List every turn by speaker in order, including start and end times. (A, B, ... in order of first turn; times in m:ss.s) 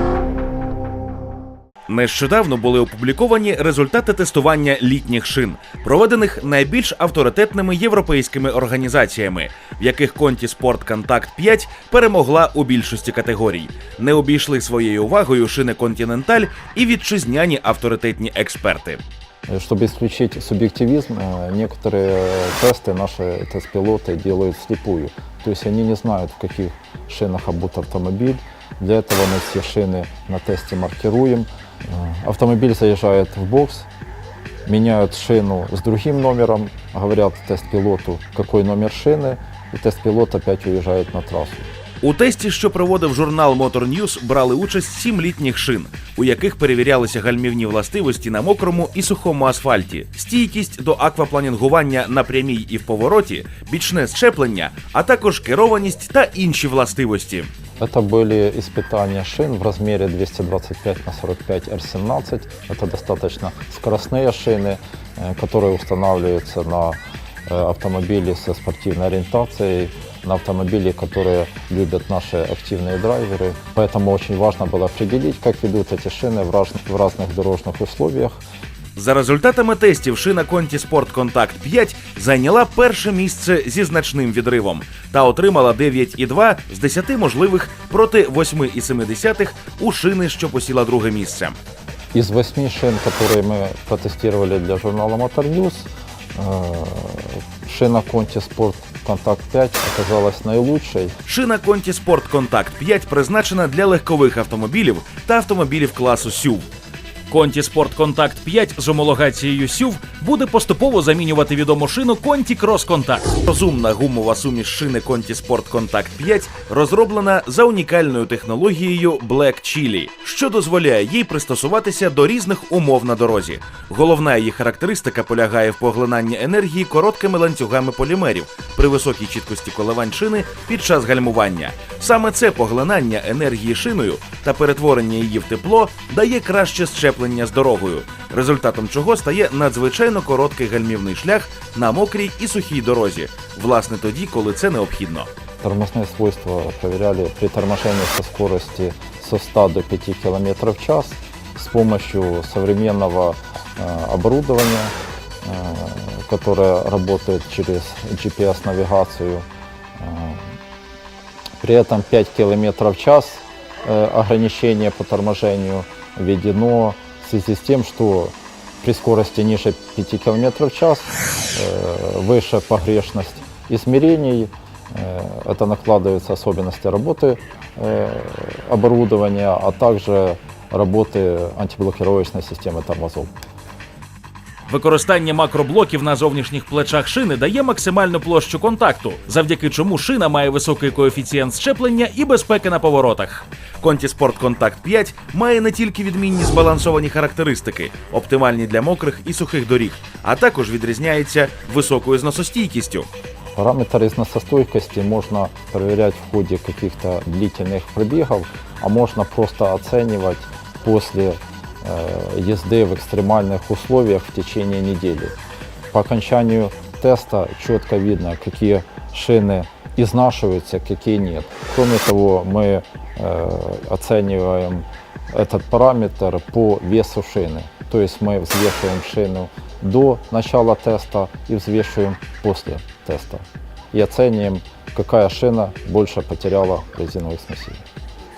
0:01.9-0:19.0 A
0:19.5-0:33.9 B
0:34.7-0:41.7 B
0:42.0-0:57.5 A
0:57.8-1:18.4 B
1:19.0-1:31.6 A
1:32.1-1:41.2 B
1:41.3-1:46.7 A
1:47.3-2:25.3 A
2:25.6-2:39.5 B
2:40.0-2:40.5 B
2:41.6-3:03.3 B
3:04.7-3:23.1 A
3:23.6-3:35.3 B
3:35.9-3:57.8 B